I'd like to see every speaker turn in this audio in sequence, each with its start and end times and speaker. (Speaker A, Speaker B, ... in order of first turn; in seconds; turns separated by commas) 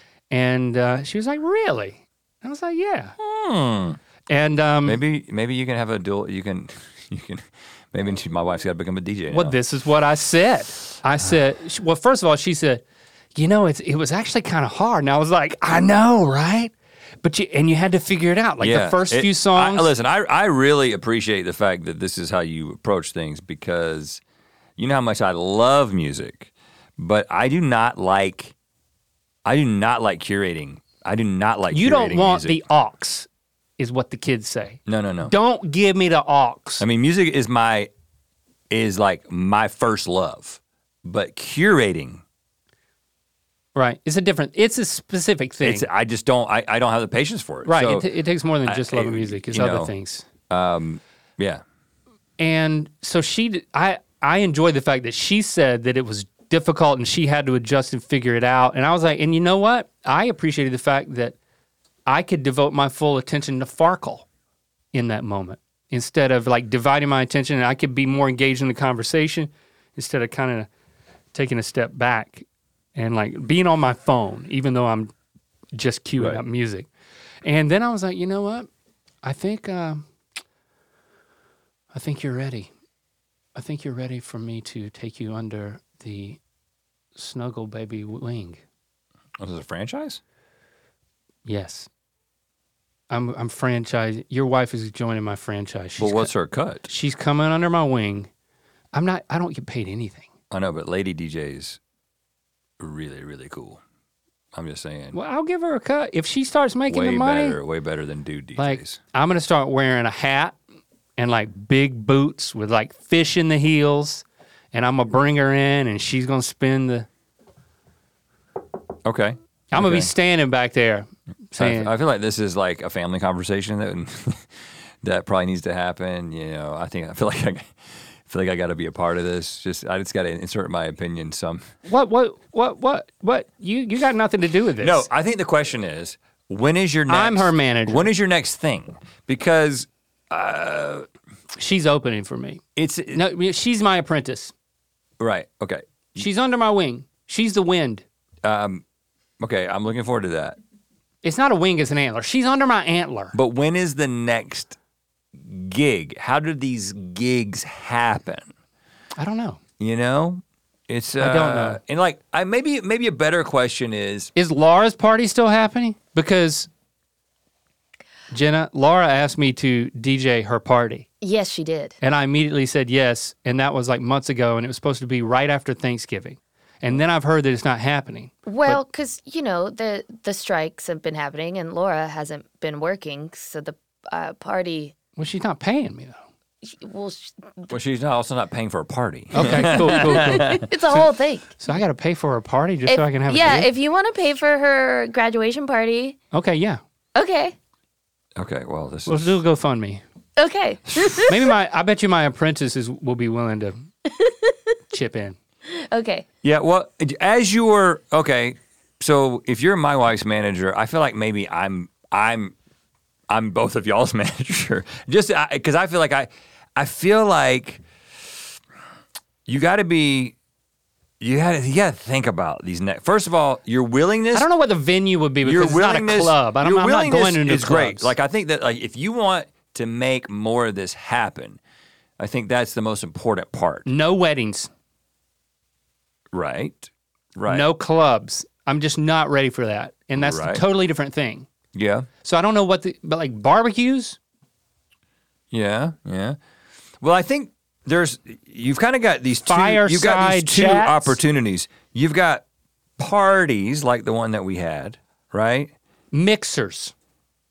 Speaker A: 0.3-3.1, Speaker B: 3.2-4.0, Speaker A: 4.3-5.0, Speaker B: 4.8-9.6, Speaker A: 9.3-12.8, Speaker A: 13.3-19.9, Speaker B: 18.6-24.2, Speaker B: 24.8-28.5, Speaker B: 29.4-32.6, Speaker A: 31.7-36.8, Speaker B: 34.9-35.3, Speaker B: 36.8-37.9, Speaker B: 38.7-42.2, Speaker A: 43.7-45.9, Speaker B: 45.6-48.1, Speaker A: 47.6-50.2, Speaker B: 48.6-49.9, Speaker B: 50.5-51.6, Speaker A: 52.4-61.4, Speaker A: 62.1-64.2, Speaker A: 64.9-70.7, Speaker A: 71.3-75.1, Speaker A: 75.7-76.9, Speaker A: 77.4-78.7, Speaker A: 79.2-80.1, Speaker A: 81.9-82.7, Speaker A: 83.5-86.4, Speaker A: 87.1-88.6, Speaker B: 89.4-90.2, Speaker A: 91.4-91.9, Speaker A: 93.1-96.3, Speaker B: 96.0-96.9, Speaker A: 96.8-98.3, Speaker A: 98.9-100.3, Speaker B: 100.5-101.8, Speaker B: 102.8-103.8, Speaker B: 104.5-105.2, Speaker A: 105.1-107.6, Speaker B: 106.9-109.0, Speaker A: 108.6-110.6, Speaker A: 111.2-117.1, Speaker B: 119.0-120.1, Speaker A: 119.7-121.9, Speaker B: 121.6-124.5, Speaker B: 125.0-127.7, Speaker B: 128.2-131.6, Speaker A: 131.8-135.1, Speaker B: 134.8-141.1, Speaker A: 137.1-138.1, Speaker A: 141.6-142.6, Speaker B: 142.8-143.2, Speaker A: 143.1-144.5, Speaker B: 145.2-146.2, Speaker A: 146.2-148.0, Speaker B: 148.4-148.8, Speaker B: 149.4-150.6, Speaker A: 151.2-153.3, Speaker B: 153.3-154.8, Speaker B: 155.4-158.5, Speaker A: 159.2-159.6, Speaker B: 159.8-164.3, Speaker A: 161.2-161.8, Speaker A: 164.3-166.7, Speaker A: 168.3-171.1, Speaker C: 171.2-171.9, Speaker A: 172.0-178.8, Speaker C: 178.4-184.9, Speaker A: 185.2-186.2, Speaker C: 186.6-187.7, Speaker B: 187.7-190.6, Speaker A: 189.3-191.1, Speaker C: 189.4-191.6, Speaker A: 191.6-193.7, Speaker C: 192.8-196.2, Speaker A: 196.3-196.8, Speaker C: 197.1-197.5, Speaker B: 198.3-199.4, Speaker A: 199.1-200.0, Speaker C: 200.4-201.5, Speaker A: 201.2-203.8, Speaker C: 204.1-204.5, Speaker A: 204.9-205.4, Speaker C: 205.7-206.2, Speaker B: 206.4-212.5, Speaker B: 213.3-217.8, Speaker B: 219.4-220.3, Speaker B: 221.2-224.5, Speaker A: 224.3-228.1, Speaker B: 225.4-231.6, Speaker B: 232.2-233.9, Speaker A: 233.8-234.7, Speaker B: 236.3-237.7, Speaker A: 237.5-241.5, Speaker B: 240.2-240.6, Speaker B: 241.7-242.1, Speaker A: 242.2-244.2, Speaker B: 245.5-246.4, Speaker B: 247.0-252.4, Speaker A: 249.4-251.2, Speaker B: 253.0-255.7, Speaker A: 256.1-256.9